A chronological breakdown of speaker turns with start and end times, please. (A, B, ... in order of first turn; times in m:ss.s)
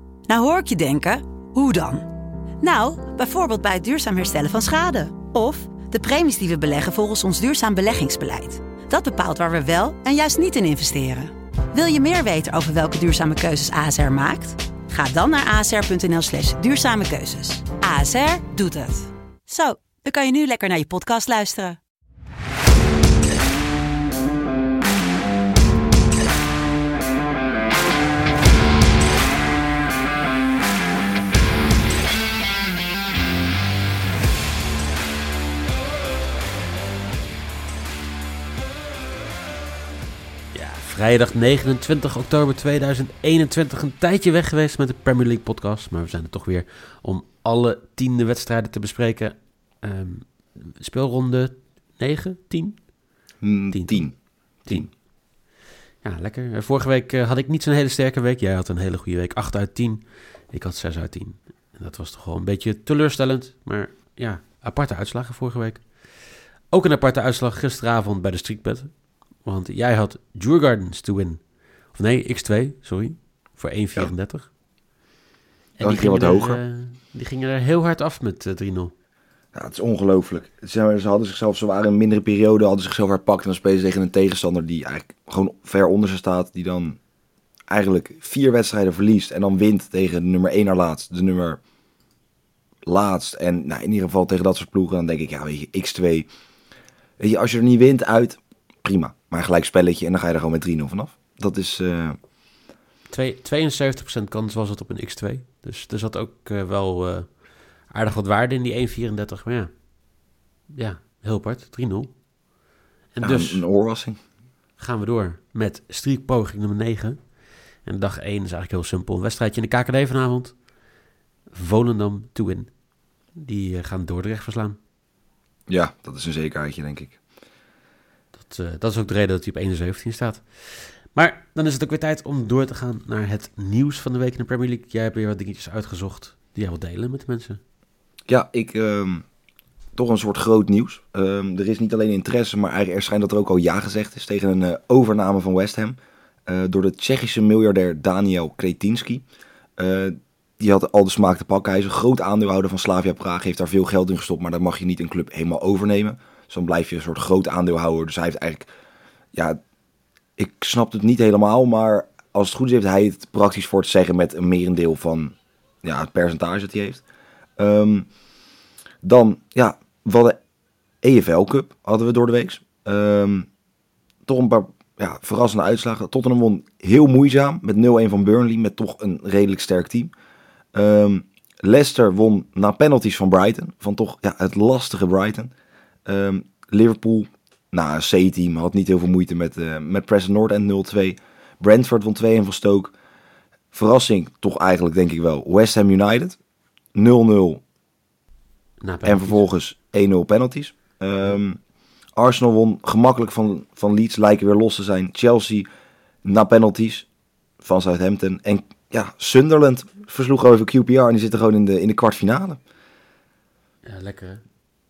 0:00.3-0:02.1 A
0:02.6-0:21.8 A
0:40.5-0:52.9 B
0:53.4-0:54.9 C
0:53.7-0:54.9 B
0:56.0-1:06.1 B
1:06.7-1:14.5 B
1:15.8-1:18.9 B
1:15.8-1:16.6 C
1:19.5-1:27.0 C
1:27.7-1:31.6 C
1:32.9-1:36.3 C
1:37.2-1:42.2 C
1:43.1-1:49.7 B
1:50.8-1:52.1 B
1:53.1-1:53.6 B
1:53.2-1:54.2 C
1:54.8-1:57.2 B
1:57.8-2:00.6 B
2:01.5-2:02.7 B
2:03.4-2:04.8 B
2:05.7-2:07.2 C
2:08.4-2:17.6 B
2:18.3-2:19.2 C
2:20.0-2:29.2 C
2:29.8-2:38.7 C
2:40.4-2:47.0 C
2:47.6-2:48.1 C
2:49.0-2:50.4 C
2:51.0-2:53.5 C
2:54.3-3:00.1 C
3:00.7-3:05.5 C
3:06.1-3:13.0 C
3:13.7-3:16.4 C
3:16.9-3:17.6 C
3:18.8-3:19.4 B
3:19.0-3:21.6 C
3:22.2-3:25.7 C
3:26.2-3:27.1 C
3:27.6-3:32.6 C
3:33.9-3:34.4 B